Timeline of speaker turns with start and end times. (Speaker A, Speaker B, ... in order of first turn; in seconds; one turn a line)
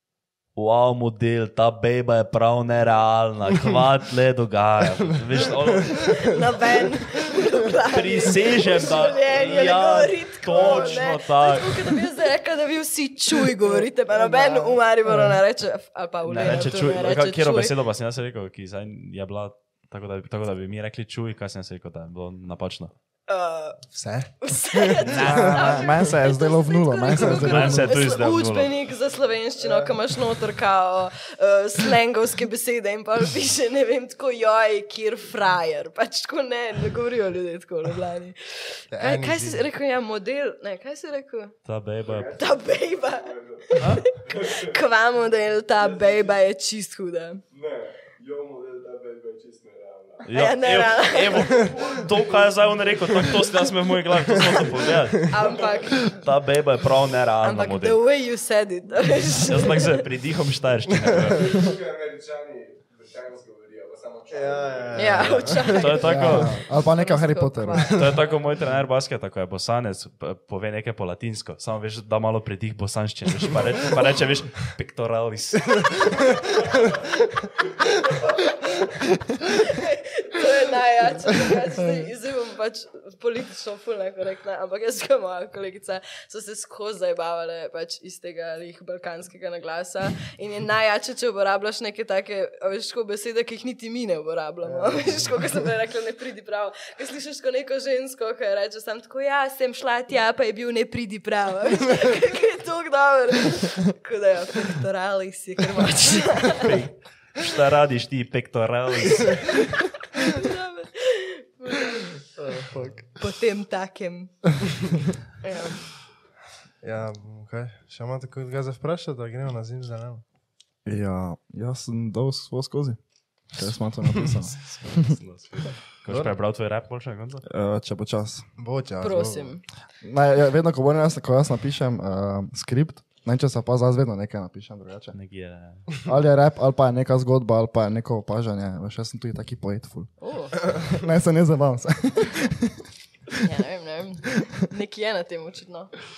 Speaker A: 0.5-6.3
Speaker B: 5.6-6.2
Speaker C: 6.0-17.7
Speaker A: 7.9-12.0
Speaker B: 10.5-11.1
Speaker B: 13.6-15.3
Speaker A: 16.2-22.9
Speaker C: 23.3-41.5
Speaker B: 23.9-25.6
Speaker A: 25.0-25.8
Speaker D: 25.2-28.0
Speaker A: 27.3-28.7
Speaker B: 29.6-30.0
Speaker B: 38.9-39.6
Speaker A: 41.6-42.3
Speaker E: 42.0-44.8
Speaker C: 42.4-47.4
Speaker A: 43.8-44.0
Speaker E: 45.8-46.4
Speaker E: 47.5-50.3
Speaker A: 50.3-55.4
Speaker C: 50.3-51.7
Speaker E: 51.5-53.2
Speaker E: 54.5-54.9
Speaker B: 54.9-55.3
Speaker C: 55.3-56.2
Speaker A: 56.0-58.0
Speaker C: 57.4-60.0
Speaker A: 59.4-61.6
Speaker E: 61.2-65.5
Speaker B: 64.3-65.9
Speaker C: 64.9-68.4
Speaker A: 65.2-66.6
Speaker D: 66.0-68.0
Speaker A: 67.9-76.1
Speaker C: 79.5-106.7
Speaker D: 81.8-82.1
Speaker B: 94.6-95.6
Speaker A: 106.5-109.6
Speaker C: 109.2-112.2
Speaker B: 112.4-112.9
Speaker D: 112.5-113.0
Speaker C: 113.2-114.6
Speaker C: 115.4-115.9
Speaker B: 116.8-120.2
Speaker D: 120.8-123.0
Speaker D: 123.5-125.2
Speaker A: 124.7-127.4
Speaker B: 126.1-126.3
Speaker D: 127.5-128.4
Speaker B: 128.6-129.6
Speaker C: 129.0-129.6
Speaker D: 130.0-135.1
Speaker A: 135.1-135.9
Speaker D: 136.1-143.4
Speaker C: 140.2-140.6
Speaker C: 143.4-145.9